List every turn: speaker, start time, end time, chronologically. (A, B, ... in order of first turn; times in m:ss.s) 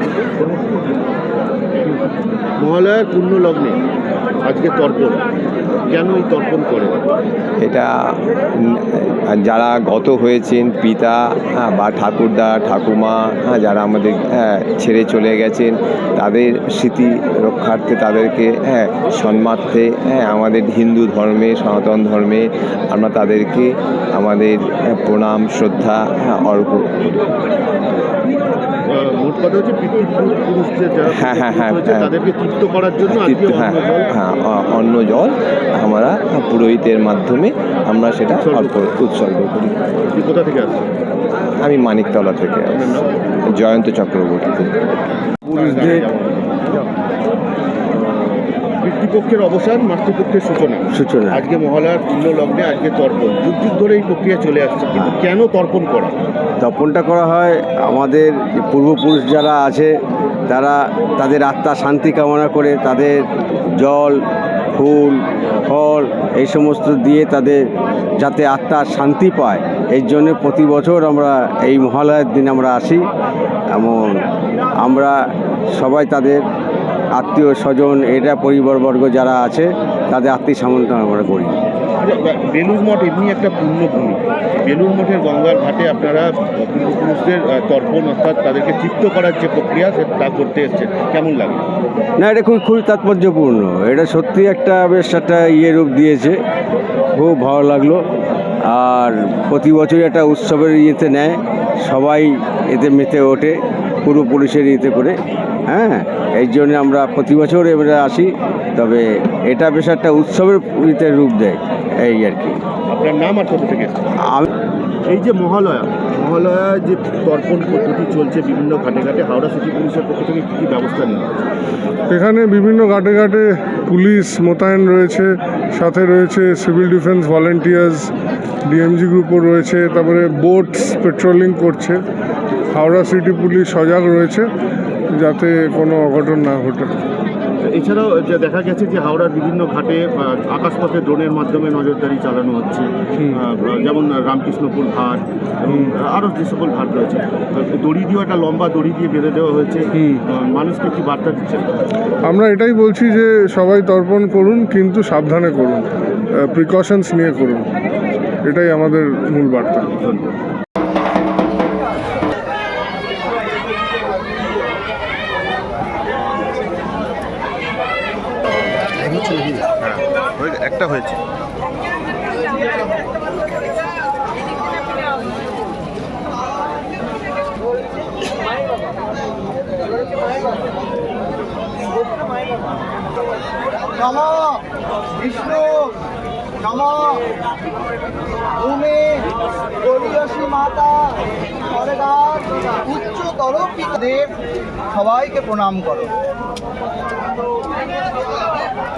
0:00.4-0:00.9 A
0:02.6-0:03.8 A
0:04.4-0:05.2 A
0:05.9-0:07.2 A
0:07.6-0:27.0 B
0:28.9-0:34.1 A
0:31.1-0:32.1 B
0:33.1-0:39.8 B
0:38.4-0:38.8 A
0:40.1-0:40.8 A
0:41.6-0:42.9 B
0:42.7-0:43.0 A
0:43.5-0:44.8 B
0:45.5-0:46.7 A
0:45.6-0:46.0 C
0:48.8-0:56.2 A
0:50.9-0:51.4 C
0:56.6-0:59.9 C
1:00.5-1:03.2 C
1:03.8-1:04.2 C
1:04.7-1:07.6 C
1:08.2-1:13.1 C
1:13.7-1:14.0 C
1:14.8-1:15.2 C
1:15.7-1:16.4 C
1:17.1-1:21.6 C
1:22.0-1:31.6 A
1:32.2-1:36.4 C
1:37.1-1:38.0 C
1:38.7-1:52.6 C
1:52.9-1:54.0 A
1:55.1-2:01.4 A
2:02.1-2:08.1 D
2:08.7-2:12.0 D
2:12.7-2:14.5 D
2:15.1-2:16.9 D
2:17.6-2:31.7 A
2:32.2-2:35.9 D
2:36.4-2:37.7 D
2:38.4-2:39.9 D
2:39.9-2:40.3 A
2:49.0-2:51.2 A
3:03.9-3:04.6 E
3:05.2-3:06.0 E
3:06.6-3:07.3 E
3:08.6-3:09.3 E
3:09.8-3:14.3 E
3:14.9-3:16.1 E